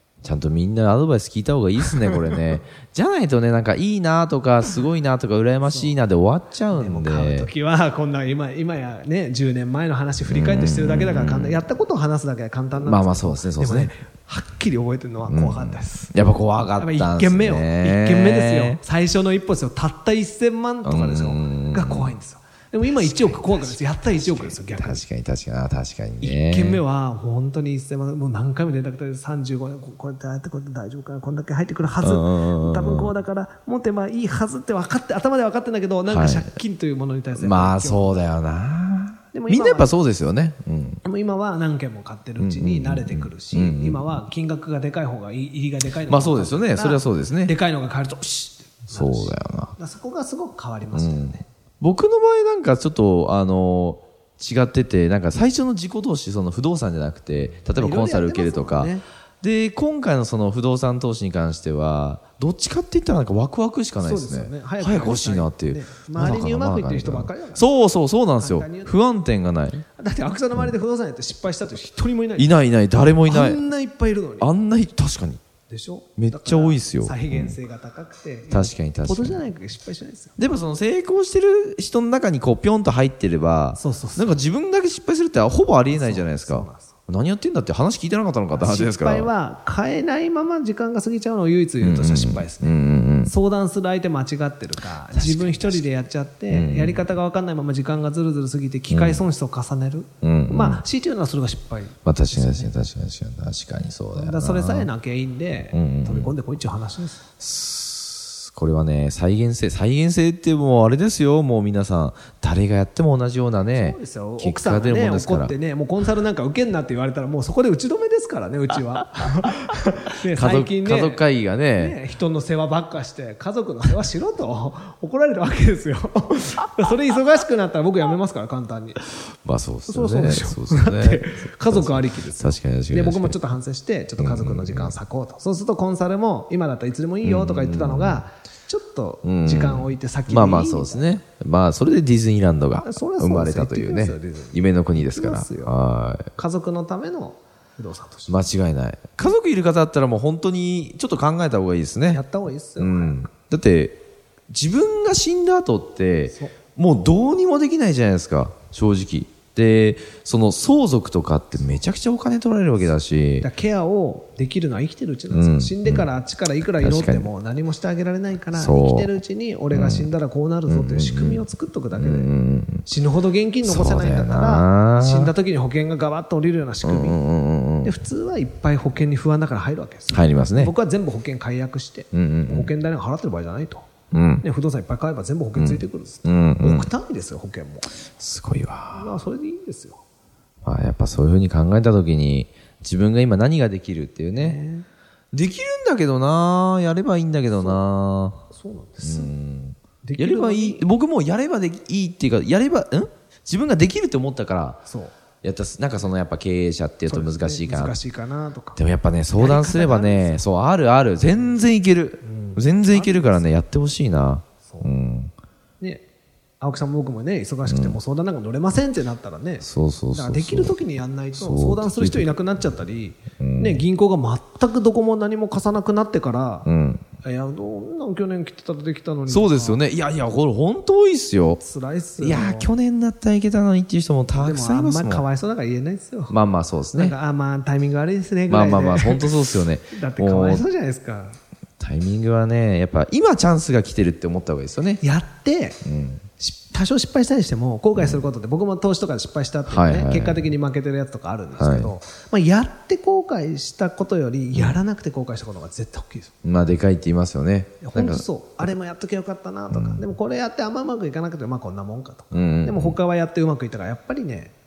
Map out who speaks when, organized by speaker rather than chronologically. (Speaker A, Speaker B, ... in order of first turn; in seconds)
Speaker A: 0.2-7.5, 10.2-11.6, 12.8-13.9, 15.2-18.8, 20.8-22.2, 22.8-26.8, 32.0-33.1, 36.0-36.5, 37.4-41.0, 42.4-44.1, 46.0-47.5, 48.9-49.7, 50.9-69.8, 72.4-73.6, 74.4-75.4, 76.2-77.6, 78.5-79.4, 80.4-89.3, 91.8-93.3, 95.1-95.9, 96.5-97.0, 98.9-99.2, 100.2-100.8, 102.0-104.9, 105.7-106.3, 107.4-115.5, 120.2-122.0, 129.4-133.4, 134.2-134.9, 137.2-138.2, 139.2-146.3, 148.3-152.2, 152.8-163.5, 165.3-166.1, 166.8-167.3, 168.5-169.1, 169.7-170.1, 170.7-172.8, 173.6-175.3, 176.8-178.0, 180.1-180.7, 182.1-182.7, 184.1-184.4, 185.5-186.9, 188.2-189.1, 190.6-194.6, 195.3-198.4, 199.0-204.8, 205.4-207.9, 208.8-215.3, 217.7-218.0, 219.6-220.7, 221.3-222.3, 223.4-223.8, 226.6-227.0, 229.3-231.6, 232.2-235.2, 236.3-237.1, 238.5-240.6, 241.8-245.0, 245.8-246.2, 248.0-248.2, 249.7-250.5, 251.6-251.9, 256.4-258.2, 259.7-260.0, 262.3-263.0
Speaker B: 5.6-6.0, 6.7-16.1, 16.8-25.0, 26.2-38.2, 39.3-39.9, 41.0-51.4, 57.5-59.0, 64.0-67.7, 68.4-69.0, 70.0-72.6, 73.2-74.5, 75.7-80.4, 83.7-84.3, 85.9-86.9, 88.5-102.7, 104.1-107.2, 113.7-121.2, 121.8-129.0, 129.9-141.2, 142.8-145.8, 146.3-148.4, 152.1-153.3, 163.4-177.2, 177.8-183.9, 184.4-187.9, 188.9-190.0, 194.4-194.9, 197.5-197.8, 198.5-199.3, 200.0-200.9, 204.8-205.1, 207.1-208.8, 209.3-210.4, 211.3-211.6, 212.2-213.6, 214.6-214.9, 215.8-216.0, 216.6-226.7, 227.2-229.8, 231.6-232.7, 234.3-236.4, 236.9-239.4, 239.9-241.4, 245.0-245.8, 246.4-256.3, 257.8-264.5